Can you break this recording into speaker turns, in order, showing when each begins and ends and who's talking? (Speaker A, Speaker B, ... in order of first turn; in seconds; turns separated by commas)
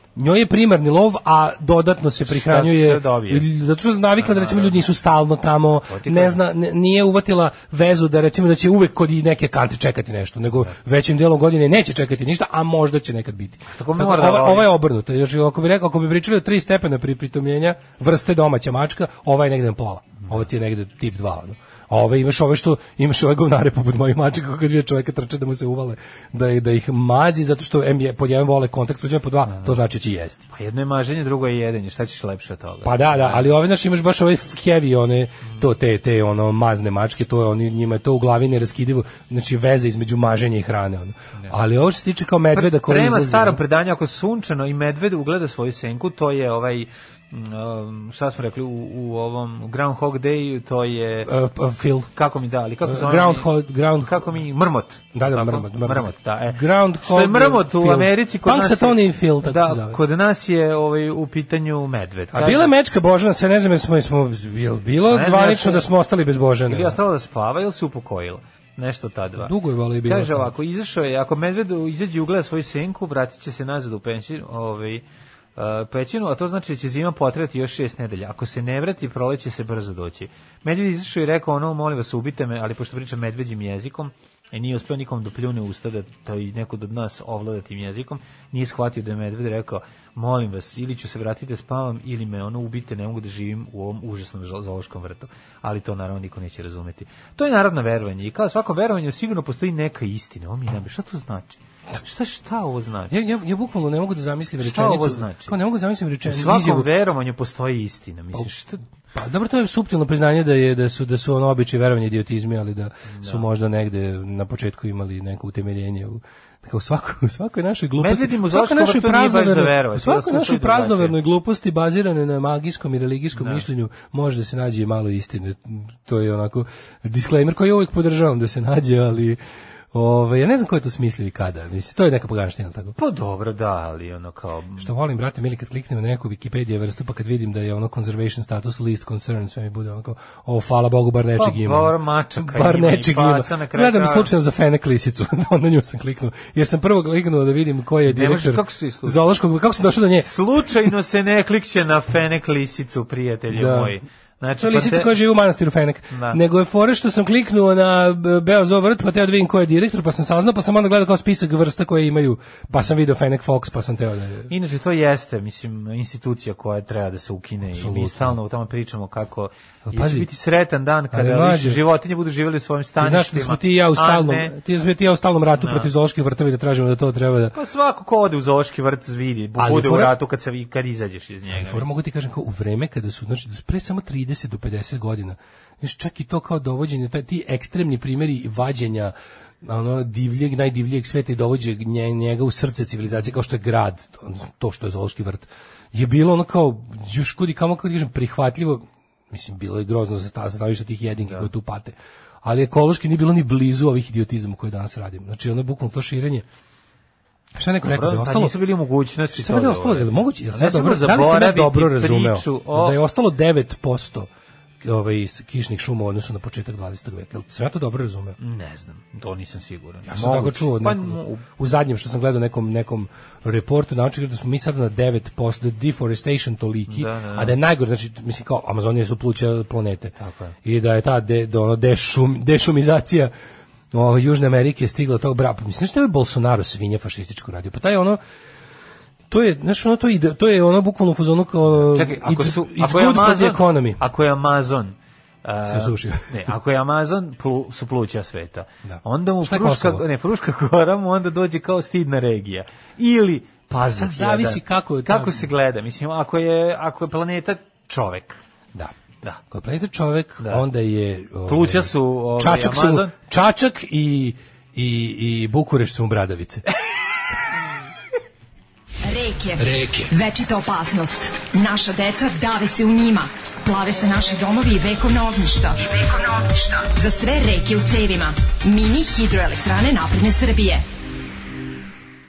Speaker A: 0.1-30.4, Speaker B: 2.3-3.5, Speaker B: 4.2-4.8, Speaker B: 5.9-6.4, Speaker B: 13.7-14.7, Speaker B: 29.5-29.8, Speaker B: 30.5-33.5, Speaker A: 32.9-43.6, Speaker B: 42.5-51.3, Speaker A: 51.2-52.1, Speaker B: 52.1-62.7, Speaker A: 52.8-54.4, Speaker A: 55.1-60.0, Speaker A: 62.3-67.0, Speaker B: 65.1-65.9, Speaker B: 66.7-69.5, Speaker A: 69.4-70.5, Speaker B: 70.0-75.0, Speaker B: 75.6-103.1, Speaker A: 103.1-106.9, Speaker B: 104.6-105.6, Speaker B: 106.2-108.8, Speaker A: 109.2-129.4, Speaker B: 113.1-113.5, Speaker B: 118.0-121.2, Speaker B: 123.3-123.7, Speaker A: 129.9-133.0, Speaker B: 133.0-134.9, Speaker A: 134.8-150.3, Speaker B: 141.4-144.3, Speaker B: 148.1-149.2, Speaker B: 150.2-155.1, Speaker A: 153.5-154.0, Speaker A: 154.6-164.5, Speaker B: 156.1-156.4, Speaker B: 164.5-174.6, Speaker A: 167.7-168.4, Speaker A: 169.9-170.3, Speaker A: 171.1-171.8, Speaker A: 173.0-177.6, Speaker B: 175.6-175.9, Speaker B: 177.5-181.9, Speaker A: 179.6-180.2, Speaker A: 181.5-206.4, Speaker B: 201.2-201.5, Speaker A: 207.6-208.6, Speaker B: 207.8-213.0, Speaker A: 209.3-214.3, Speaker A: 214.8-218.4, Speaker B: 218.4-221.5, Speaker A: 220.1-230.1, Speaker B: 226.9-227.6, Speaker B: 230.2-230.6, Speaker A: 230.7-233.3, Speaker A: 233.9-238.2, Speaker A: 239.3-244.0, Speaker B: 241.8-258.4, Speaker A: 245.7-246.3, Speaker A: 248.9-250.0, Speaker A: 253.9-255.5, Speaker A: 259.5-266.6, Speaker B: 260.4-260.7, Speaker B: 261.5-263.1, Speaker C: 269.0-280.8, Speaker A: 269.6-270.1